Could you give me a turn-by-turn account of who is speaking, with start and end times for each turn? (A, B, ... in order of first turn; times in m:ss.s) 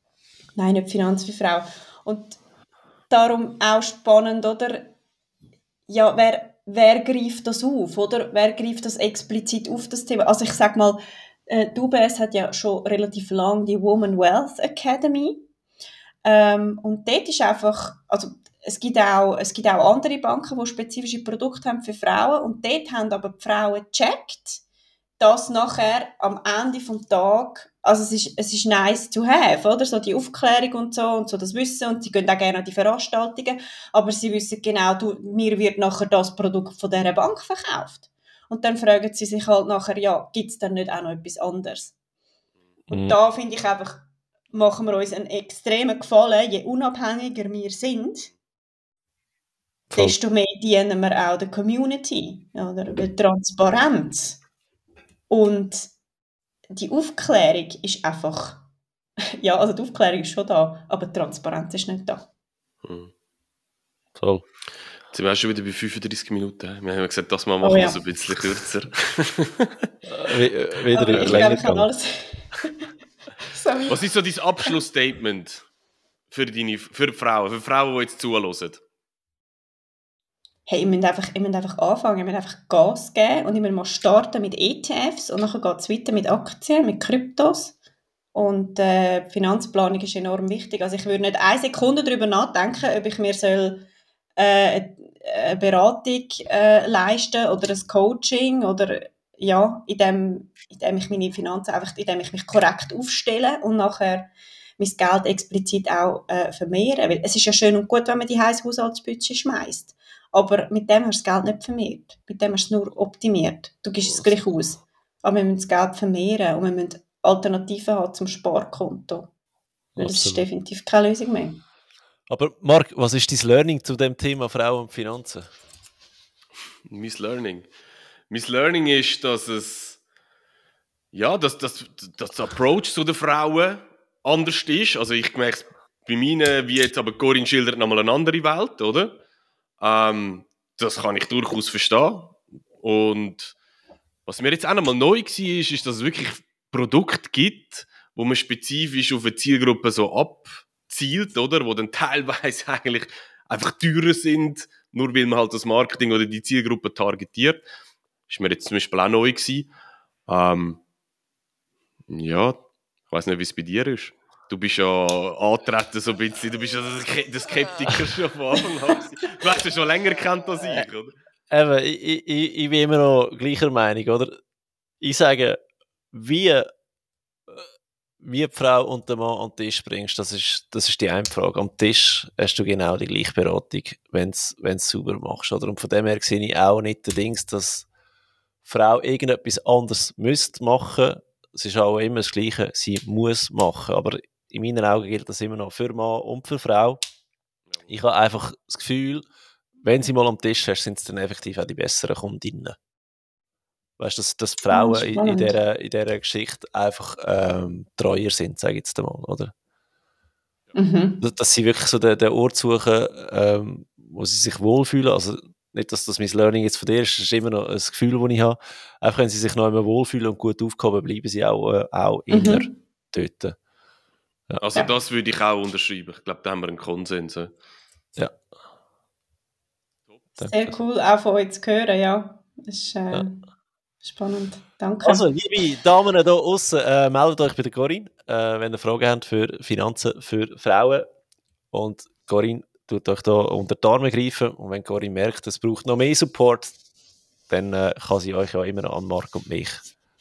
0:00.5-0:02.4 A
0:03.1-0:04.9 A
0:05.9-0:15.5 A
0:16.2-0:24.6 A
0:25.2-0:41.9 A
0:42.9-0:48.3 A
0:42.9-0:43.2 B
0:49.9-0:50.2 B
0:49.9-0:54.4 A
0:55.3-0:55.9 A
0:56.7-0:58.6 A
0:59.4-1:02.3 A
1:02.8-1:03.1 C
1:04.2-1:04.4 B
1:05.1-1:09.7 C
1:07.6-1:08.0 A
1:10.1-1:11.9 B
1:10.9-1:12.7 A
1:11.1-1:11.5 C
1:13.5-1:14.0 A
1:13.9-1:15.6 C
1:16.3-1:18.8 C
1:20.7-1:27.7 A
1:28.3-1:33.8 A
1:34.4-1:59.3 A
2:00.0-2:00.4 B
2:00.0-2:01.6 A
2:02.3-2:05.5 B
2:06.9-2:07.7 C
2:08.3-2:10.0 C
2:11.1-2:19.2 C
2:19.8-2:23.5 C
2:24.2-2:37.6 C
2:38.3-2:39.7 C
2:40.3-2:40.8 C
2:42.1-2:51.1 C
2:51.5-2:54.4 B
2:55.0-2:55.6 B
2:56.1-2:56.7 B
2:58.2-3:07.9 B
3:08.6-3:17.0 B
3:17.9-3:19.3 B
3:19.8-3:22.8 B
3:24.0-3:29.5 B
3:24.7-3:25.5 A
3:30.7-3:31.2 A
3:31.2-3:43.6 B
3:42.3-3:42.7 A
3:44.6-3:47.5 C
3:50.4-3:50.8 B
3:50.5-3:53.4 A
3:54.0-3:55.2 A
3:55.0-4:01.0 B
4:01.7-4:06.8 B
4:07.5-4:09.8 B